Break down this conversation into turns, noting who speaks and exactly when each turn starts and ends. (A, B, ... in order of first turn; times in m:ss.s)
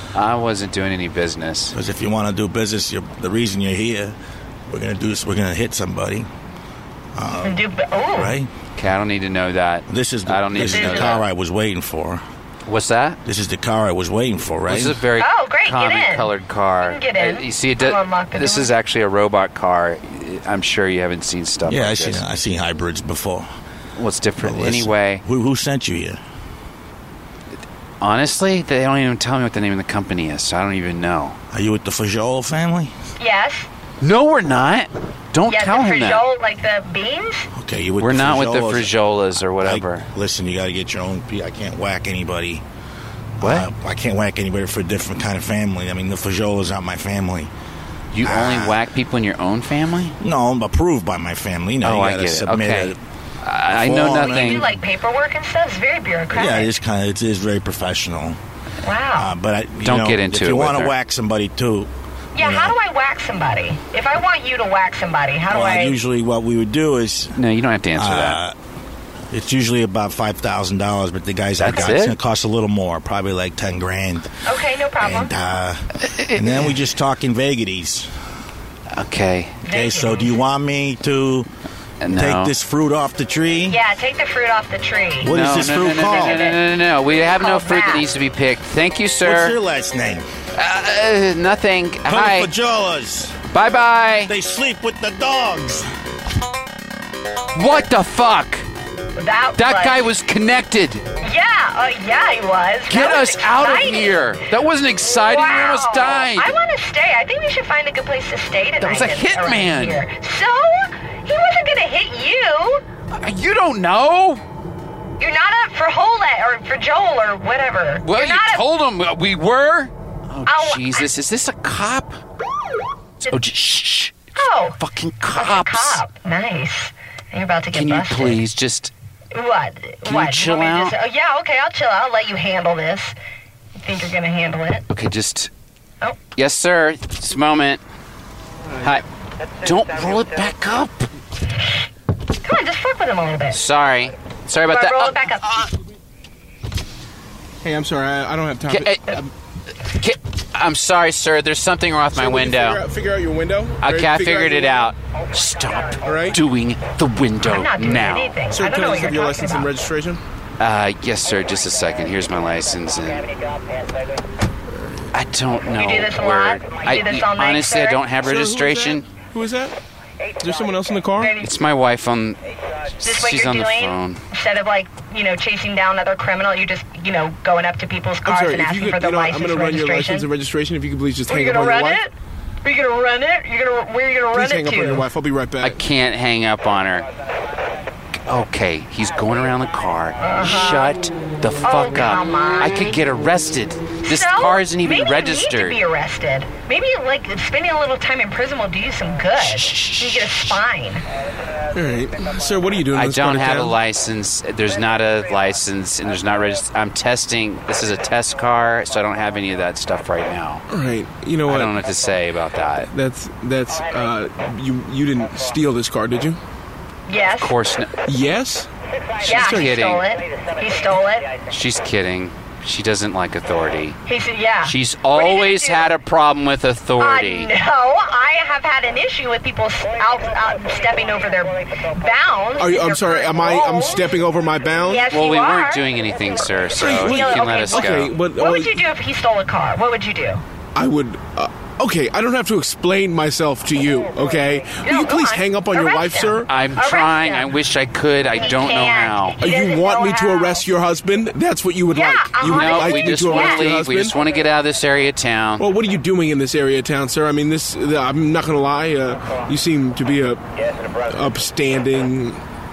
0:00.1-0:01.8 A
0:01.7-0:04.2 B
0:04.7-0:06.3 B
0:07.1-0:08.5 B
0:07.4-0:08.4 C
0:08.8-0:11.2 A
0:09.9-0:12.2 B
0:10.7-0:11.2 C
0:12.6-0:13.2 A
0:13.2-0:15.0 B
0:14.7-0:22.2 A
0:15.2-0:18.7 C
0:21.6-0:23.5 B
0:24.0-0:25.2 A
0:24.4-0:26.2 B
0:28.0-0:31.4 A
0:31.5-0:32.9 B
0:33.2-0:33.7 C
0:34.0-0:36.2 A
0:35.5-0:37.5 C
0:37.5-0:42.6 B
0:38.0-0:40.1 A
0:43.4-0:47.5 B
0:43.4-0:43.7 A
0:48.1-0:50.2 A
0:48.2-0:48.8 B
0:50.2-0:53.0 B
0:51.8-0:54.7 A
0:53.7-0:54.7 B
0:54.1-0:56.7 C
0:56.3-0:58.4 B
0:58.8-0:59.3 C
0:59.2-1:02.8 B
0:59.8-1:00.9 A
1:02.3-1:06.0 C
1:05.5-1:07.4 B
1:07.4-1:08.4 A
1:08.0-1:08.5 B
1:09.3-1:14.3 B
1:11.6-1:12.2 A
1:14.4-1:15.3 C
1:15.0-1:18.1 B
1:16.0-1:16.8 A
1:18.9-1:19.6 A
1:19.6-1:20.3 C
1:19.6-1:21.5 B
1:22.0-1:22.5 A
1:22.1-1:23.8 B
1:23.7-1:26.7 C
1:25.2-1:26.5 B
1:25.2-1:29.6 A
1:27.4-1:28.1 C
1:29.2-1:30.3 B
1:30.5-1:32.5 A
1:32.0-1:33.4 B
1:33.5-1:34.3 A
1:34.2-1:35.9 B
1:37.5-1:38.6 A
1:39.2-1:40.1 C
1:39.6-1:41.0 A
1:41.2-1:44.3 C
1:42.9-1:46.5 A
1:45.0-1:52.8 C
1:48.8-1:50.0 A
1:53.1-1:54.4 A
1:55.2-1:58.6 C
1:58.0-2:02.2 A
2:00.4-2:01.1 C
2:03.2-2:06.0 A
2:04.4-2:04.8 C
2:05.3-2:08.4 C
2:07.7-2:08.9 A
2:09.3-2:13.1 C
2:10.0-2:10.9 A
2:13.8-2:14.8 C
2:14.9-2:15.5 A
2:16.4-2:17.8 A
2:19.6-2:21.1 A
2:22.4-2:23.6 C
2:23.5-2:25.3 A
2:24.6-2:25.6 C
2:27.6-2:29.2 D
2:28.7-2:29.3 A
2:29.8-2:32.8 A
2:32.1-2:34.9 D
2:33.8-2:38.4 A
2:36.0-2:36.4 D
2:37.4-2:39.7 C
2:38.5-2:40.2 D
2:40.6-2:43.3 A
2:45.1-2:49.1 A
2:45.7-2:48.1 C
2:48.2-2:49.8 D
2:50.4-2:51.3 D
2:51.2-2:51.5 C
2:51.4-2:52.4 A
2:53.0-2:54.2 A
2:53.0-3:00.3 C
2:58.2-3:02.0 D
3:01.3-3:02.1 C
3:02.6-3:05.0 C
3:04.3-3:05.8 D
3:05.6-3:07.1 A
3:08.3-3:15.8 A
3:10.2-3:10.9 C
3:11.6-3:13.0 C
3:14.0-3:21.0 C
3:19.4-3:20.6 A
3:21.7-3:23.8 D
3:22.9-3:30.6 A
3:30.7-3:31.8 D
3:31.5-3:32.9 A
3:32.9-3:36.4 D
3:37.1-3:37.5 C
3:37.4-3:37.9 A
3:38.1-3:38.7 D
3:39.2-3:40.0 A
3:39.2-3:39.8 D
3:39.3-3:41.3 C
3:41.5-3:44.0 A
3:44.1-3:45.9 C
3:44.6-3:47.5 A
3:47.0-3:54.2 C
3:52.6-3:55.1 D
3:54.8-3:55.9 C
3:55.1-3:58.1 A
3:56.7-4:00.4 C
3:56.8-3:58.8 D
4:00.7-4:06.5 D
4:04.8-4:07.6 C
4:06.5-4:09.4 A
4:08.3-4:10.6 C
4:09.4-4:14.2 D
4:11.9-4:13.6 C
4:12.4-4:15.6 A
4:15.6-4:20.4 D
4:21.0-4:22.4 D